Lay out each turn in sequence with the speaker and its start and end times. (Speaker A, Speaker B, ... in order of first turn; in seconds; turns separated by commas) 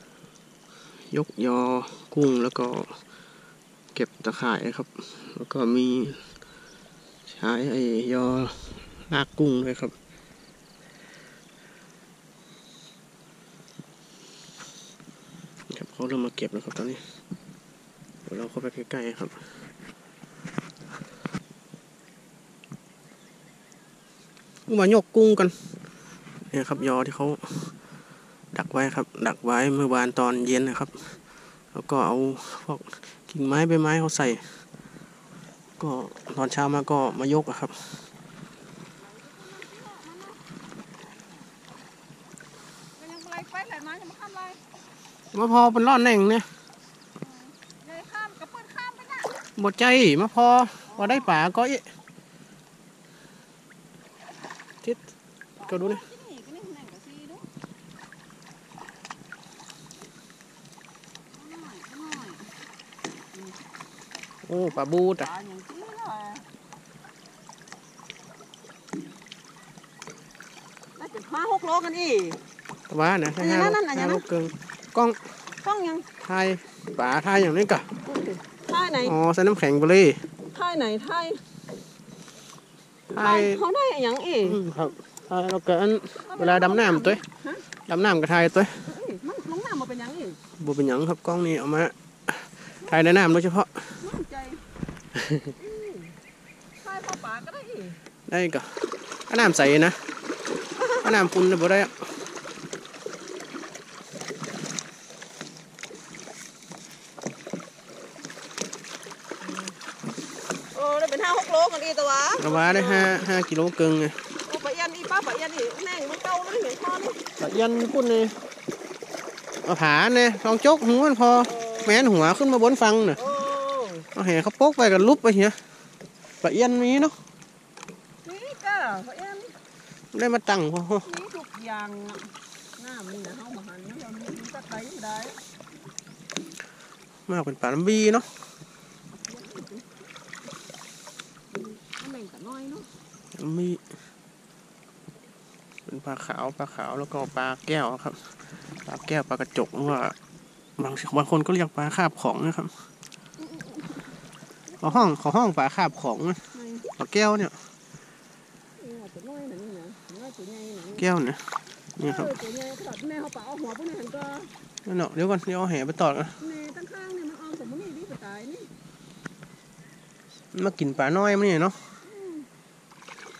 Speaker A: 1.1-3.0, Speaker A: 3.9-6.2, Speaker A: 7.2-9.9, Speaker A: 15.7-17.1, Speaker A: 18.2-19.6, Speaker A: 24.7-25.7, Speaker A: 26.4-27.8, Speaker A: 28.5-31.2, Speaker A: 31.7-34.7, Speaker A: 35.8-38.1, Speaker B: 39.0-40.4, Speaker B: 43.0-44.6, Speaker A: 45.3-46.5, Speaker B: 47.2-49.3, Speaker A: 49.5-51.9, Speaker B: 50.9-51.3, Speaker A: 54.8-55.1, Speaker B: 55.6-57.5, Speaker A: 55.7-56.0, Speaker B: 61.3-62.5, Speaker A: 64.4-65.3, Speaker B: 64.6-66.4, Speaker B: 71.0-72.4, Speaker A: 72.9-75.3, Speaker B: 73.4-74.2, Speaker B: 75.6-76.1, Speaker A: 76.2-77.9, Speaker B: 78.0-79.2, Speaker A: 79.0-80.3, Speaker B: 80.4-81.4, Speaker A: 83.1-83.6, Speaker B: 83.1-84.6, Speaker A: 84.4-88.9, Speaker B: 86.2-87.6, Speaker B: 88.8-90.4, Speaker A: 90.6-94.0, Speaker B: 94.0-94.6, Speaker B: 95.6-96.2, Speaker B: 96.8-98.0, Speaker A: 98.3-100.1, Speaker A: 101.0-102.1, Speaker B: 109.4-109.7, Speaker B: 110.5-113.3, Speaker A: 112.4-114.2, Speaker B: 114.4-117.2, Speaker A: 117.4-118.4, Speaker A: 119.6-123.2, Speaker B: 121.5-122.0, Speaker B: 123.2-124.1, Speaker A: 124.1-125.6, Speaker A: 126.4-127.1, Speaker B: 128.2-129.5, Speaker A: 130.1-131.1, Speaker B: 131.0-135.4, Speaker A: 137.3-138.4, Speaker B: 139.1-139.9, Speaker B: 142.0-142.9, Speaker A: 143.3-143.8, Speaker A: 145.8-150.1, Speaker A: 150.8-152.9, Speaker B: 153.4-154.1, Speaker B: 154.7-155.1, Speaker A: 154.8-157.7, Speaker B: 156.5-156.9, Speaker B: 158.8-161.1, Speaker A: 161.0-162.3, Speaker B: 162.0-164.5, Speaker A: 164.8-166.4, Speaker B: 166.4-168.7, Speaker A: 170.5-171.9, Speaker B: 172.0-172.5